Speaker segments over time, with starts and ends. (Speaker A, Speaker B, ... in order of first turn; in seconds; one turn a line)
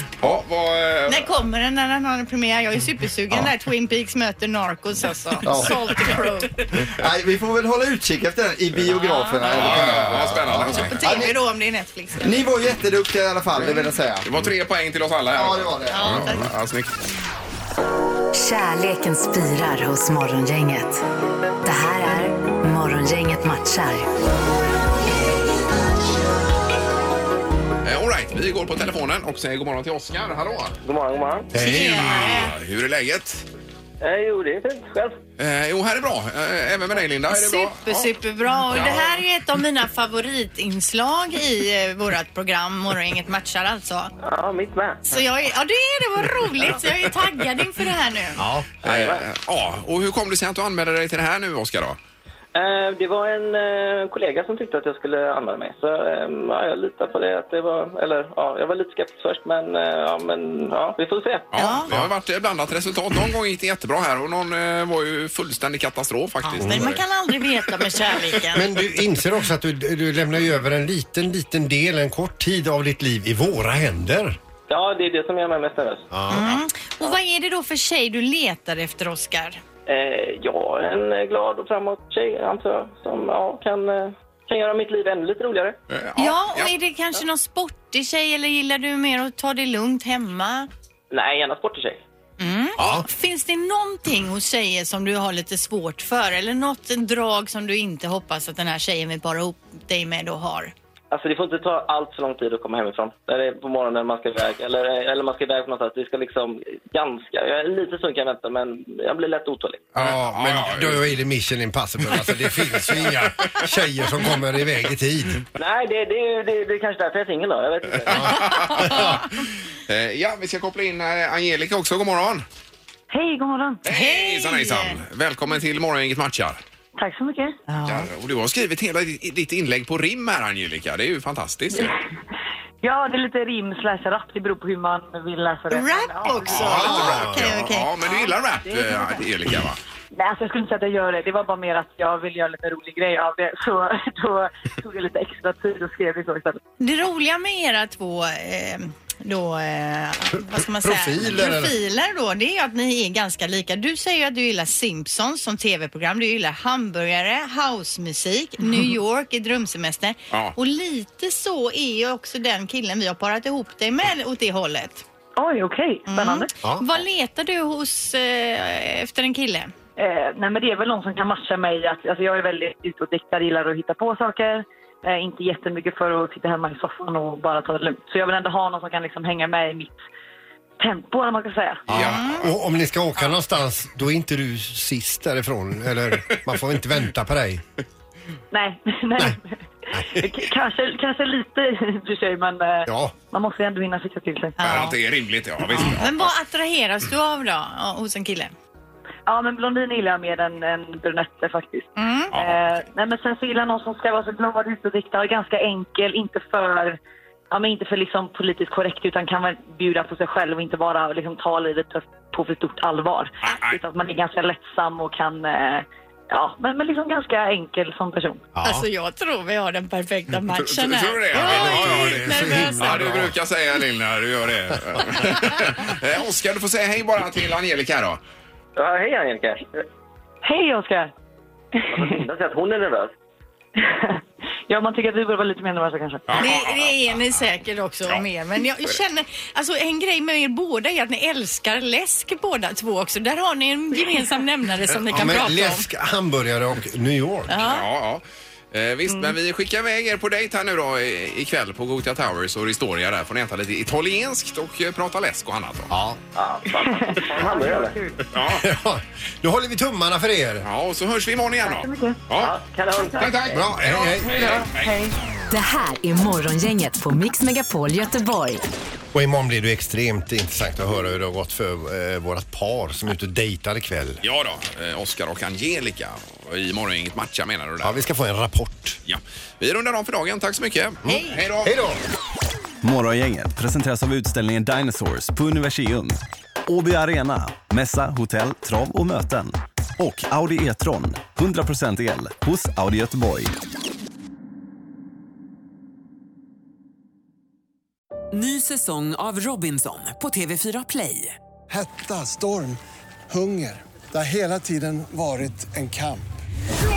Speaker A: 0.2-1.3
Speaker B: 1.1-6.6
Speaker C: 5.4-11.3
Speaker B: 8.9-9.8
Speaker A: 9.4-11.3
Speaker B: 10.9-12.5
Speaker C: 12.2-14.3
Speaker A: 14.2-16.9
Speaker C: 15.3-16.2
Speaker B: 15.9-16.5
Speaker D: 18.3-21.0
Speaker D: 21.6-24.1
Speaker A: 27.8-30.8
Speaker E: 30.8-31.5
Speaker F: 31.5-32.4
Speaker B: 31.6-32.5
Speaker A: 31.6-33.4
Speaker E: 34.0-35.2
Speaker A: 35.4-38.1
Speaker B: 37.3-44.1
Speaker E: 44.2-45.0
Speaker B: 45.1-48.4
Speaker F: 48.4-48.7
Speaker E: 48.8-49.2
Speaker A: 48.8-52.0
Speaker E: 52.5-61.5
Speaker A: 61.5-67.0
Speaker B: 61.6-61.9
Speaker B: 66.4-68.7
Speaker F: 66.6-67.0
Speaker F: 68.5-74.4
Speaker E: 74.7-76.1
Speaker F: 76.1-76.6
Speaker B: 76.3-79.6
Speaker E: 79.9-85.8
Speaker A: 85.9-86.7
Speaker B: 86.2-90.7
Speaker E: 91.1-92.0
Speaker B: 92.4-100.7
Speaker F: 92.8-93.1
Speaker E: 101.1-109.9
Speaker A: 109.9-111.1
Speaker F: 110.0-115.4
Speaker E: 115.6-118.7
Speaker A: 118.1-122.4
Speaker F: 118.2-119.2
Speaker G: 123.1-123.8
Speaker B: 123.9-125.0
Speaker A: 123.9-126.6
Speaker G: 127.0-127.6
Speaker B: 127.7-128.1
Speaker A: 127.9-131.9
Speaker G: 131.7-132.1
Speaker G: 132.8-137.0
Speaker B: 135.7-138.3
Speaker A: 136.4-139.8
Speaker F: 136.6-137.5
Speaker G: 138.7-139.1
Speaker G: 140.1-146.6
Speaker B: 146.8-165.1
Speaker F: 150.4-151.8
Speaker G: 165.4-166.5
Speaker B: 166.1-169.7
Speaker G: 170.0-180.0
Speaker G: 180.8-181.8
Speaker F: 181.9-187.6
Speaker A: 181.9-182.5
Speaker B: 181.9-182.4
Speaker G: 188.5-194.6
Speaker F: 189.9-190.5
Speaker F: 192.9-193.1
Speaker B: 194.6-194.9
Speaker A: 194.6-196.3
Speaker B: 195.7-198.5
Speaker G: 199.3-207.0
Speaker B: 201.9-202.3
Speaker A: 202.3-202.6
Speaker G: 207.5-218.4
Speaker A: 213.4-213.8
Speaker F: 218.6-218.9
Speaker B: 218.6-223.2
Speaker A: 220.5-228.2
Speaker F: 221.3-223.4
Speaker E: 228.8-229.9
Speaker G: 230.4-231.1
Speaker G: 231.8-232.2
Speaker E: 231.9-233.1
Speaker G: 233.8-236.5
Speaker A: 236.3-237.4
Speaker B: 236.4-245.9
Speaker F: 245.1-247.5
Speaker B: 247.5-247.8
Speaker A: 247.6-255.9
Speaker F: 255.9-256.2
Speaker E: 256.4-258.0
Speaker G: 256.7-258.2
Speaker A: 258.3-258.6
Speaker F: 258.4-260.7
Speaker A: 260.6-262.5
Speaker G: 261.6-262.2
Speaker E: 262.4-263.6
Speaker G: 262.9-265.1
Speaker A: 263.2-264.9
Speaker F: 263.5-264.6
Speaker D: 265.5-268.6
Speaker F: 269.1-274.2
Speaker A: 274.2-278.0
Speaker F: 277.8-279.0
Speaker A: 279.1-281.8
Speaker F: 281.1-282.0
Speaker B: 281.1-281.4
Speaker H: 282.8-293.5
Speaker I: 298.3-301.4
Speaker J: 301.7-306.3